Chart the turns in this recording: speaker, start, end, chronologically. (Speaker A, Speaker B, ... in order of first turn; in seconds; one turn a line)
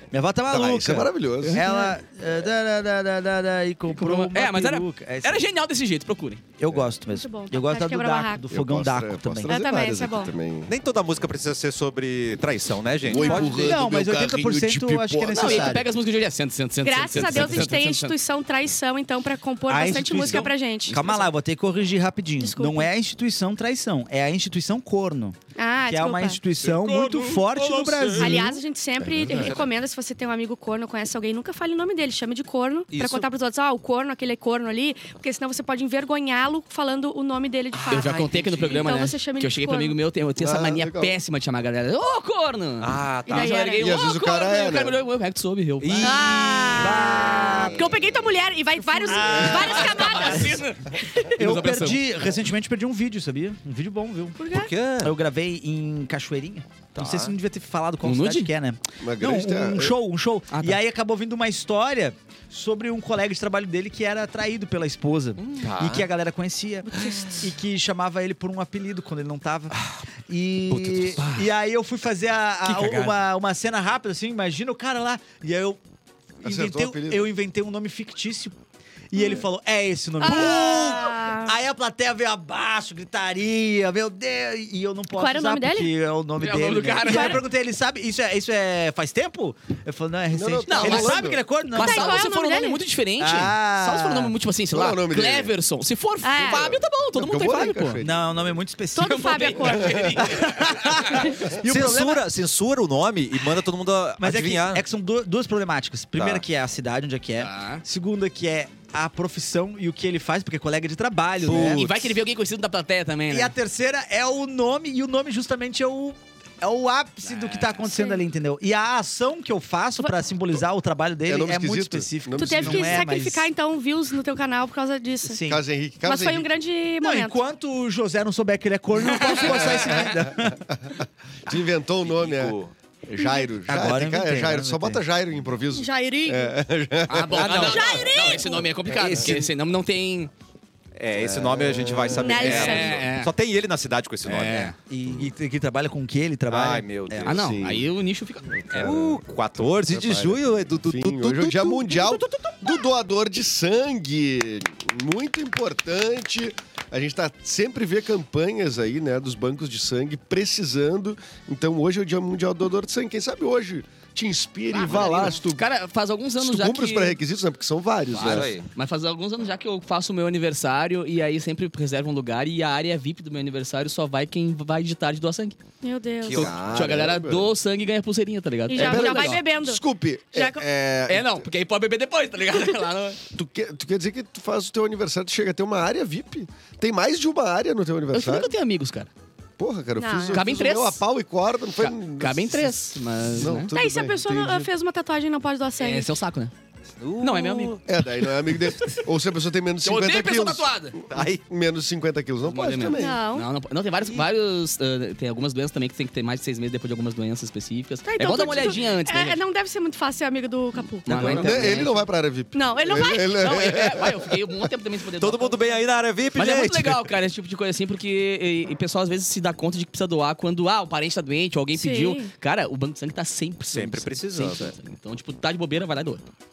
Speaker A: 0.1-5.4
Speaker B: 0.5-1.7
Speaker C: 1.4-1.9
Speaker C: 3.9-6.5
Speaker A: 6.6-9.6
Speaker D: 7.1-8.4
Speaker B: 8.5-10.7
Speaker D: 9.5-10.3
Speaker E: 10.7-13.8
Speaker B: 13.1-15.8
Speaker D: 13.1-13.5
Speaker A: 13.3-15.9
Speaker C: 15.3-18.1
Speaker D: 16.8-21.0
Speaker A: 17.1-17.8
Speaker A: 19.7-28.6
Speaker C: 20.3-21.3
Speaker D: 22.4-22.9
Speaker D: 25.6-26.4
Speaker C: 26.6-28.5
Speaker D: 28.1-40.0
Speaker B: 29.0-29.7
Speaker E: 29.3-29.7
Speaker E: 32.9-33.2
Speaker E: 37.7-38.8
Speaker C: 37.9-46.4
Speaker B: 40.4-41.2
Speaker E: 42.8-43.6
Speaker D: 43.3-43.9
Speaker B: 43.8-45.0
Speaker E: 45.8-47.2
Speaker D: 46.0-51.3
Speaker A: 46.8-47.8
Speaker B: 47.1-48.0
Speaker A: 49.0-50.6
Speaker C: 49.1-52.2
Speaker A: 51.3-54.4
Speaker D: 54.4-54.7
Speaker E: 54.5-55.1
Speaker A: 55.0-75.8
Speaker E: 56.9-57.3
Speaker C: 58.0-58.5
Speaker B: 59.0-60.0
Speaker C: 60.5-60.8
Speaker C: 65.4-65.7
Speaker E: 65.6-66.1
Speaker E: 66.9-67.4
Speaker E: 69.8-70.0
Speaker E: 70.7-71.5
Speaker E: 72.7-73.2
Speaker A: 76.4-78.6
Speaker B: 76.4-77.3
Speaker A: 79.1-92.2
Speaker D: 79.2-79.4
Speaker D: 80.2-81.5
Speaker E: 80.3-81.0
Speaker D: 85.2-85.9
Speaker C: 86.4-87.4
Speaker D: 87.0-87.4
Speaker B: 90.3-91.4
Speaker C: 90.7-98.0
Speaker D: 91.8-92.8
Speaker A: 93.2-94.3
Speaker B: 94.7-95.5
Speaker D: 96.2-96.8
Speaker B: 96.4-98.5
Speaker A: 97.5-102.2
Speaker D: 98.9-100.3
Speaker C: 99.2-101.2
Speaker B: 99.8-100.1
Speaker E: 101.5-104.8
Speaker A: 104.2-111.9
Speaker E: 106.2-106.4
Speaker C: 107.4-107.8
Speaker E: 111.5-112.0
Speaker C: 111.5-113.5
Speaker A: 113.3-123.5
Speaker C: 117.2-117.9
Speaker D: 117.9-118.2
Speaker B: 121.3-123.1
Speaker D: 122.4-125.4
Speaker A: 125.2-125.6
Speaker B: 125.5-126.5
Speaker D: 126.0-127.4
Speaker A: 127.0-130.6
Speaker C: 129.2-130.0
Speaker B: 130.1-130.8
Speaker B: 131.5-138.1
Speaker E: 132.0-132.7
Speaker D: 133.2-133.5
Speaker A: 133.7-135.0
Speaker D: 135.7-136.6
Speaker C: 137.1-140.3
Speaker E: 137.3-138.1
Speaker D: 137.5-138.7
Speaker B: 138.9-139.3
Speaker E: 139.0-139.4
Speaker E: 140.9-144.7
Speaker B: 141.2-142.8
Speaker D: 142.1-143.0
Speaker C: 142.3-143.3
Speaker C: 144.3-144.8
Speaker A: 144.6-147.4
Speaker E: 146.5-147.4
Speaker C: 147.2-148.7
Speaker B: 147.3-147.9
Speaker B: 148.5-149.2
Speaker E: 148.7-151.8
Speaker B: 149.8-165.7
Speaker C: 164.8-167.2
Speaker A: 164.9-165.4
Speaker B: 166.4-168.6
Speaker C: 168.1-175.6
Speaker E: 168.1-168.7
Speaker D: 175.8-176.5
Speaker E: 176.2-176.8
Speaker C: 176.3-179.4
Speaker B: 176.4-177.5
Speaker D: 178.7-180.6
Speaker B: 178.7-181.5
Speaker C: 181.1-183.2
Speaker B: 183.3-188.5
Speaker C: 188.1-189.1
Speaker B: 189.6-194.7
Speaker D: 190.0-190.5
Speaker C: 190.3-191.0
Speaker C: 191.8-193.7
Speaker D: 193.7-196.1
Speaker C: 195.8-196.5
Speaker E: 197.0-197.8
Speaker C: 197.2-197.8
Speaker B: 197.8-203.2
Speaker C: 199.8-201.0
Speaker E: 201.1-201.4
Speaker C: 202.4-209.4
Speaker D: 202.9-203.5
Speaker D: 208.1-211.7
Speaker C: 211.1-212.1
Speaker A: 211.1-211.8
Speaker B: 211.1-214.3
Speaker D: 212.5-213.4
Speaker C: 213.3-215.8
Speaker E: 215.2-217.1
Speaker C: 216.3-226.2
Speaker D: 221.7-222.3
Speaker E: 223.7-224.7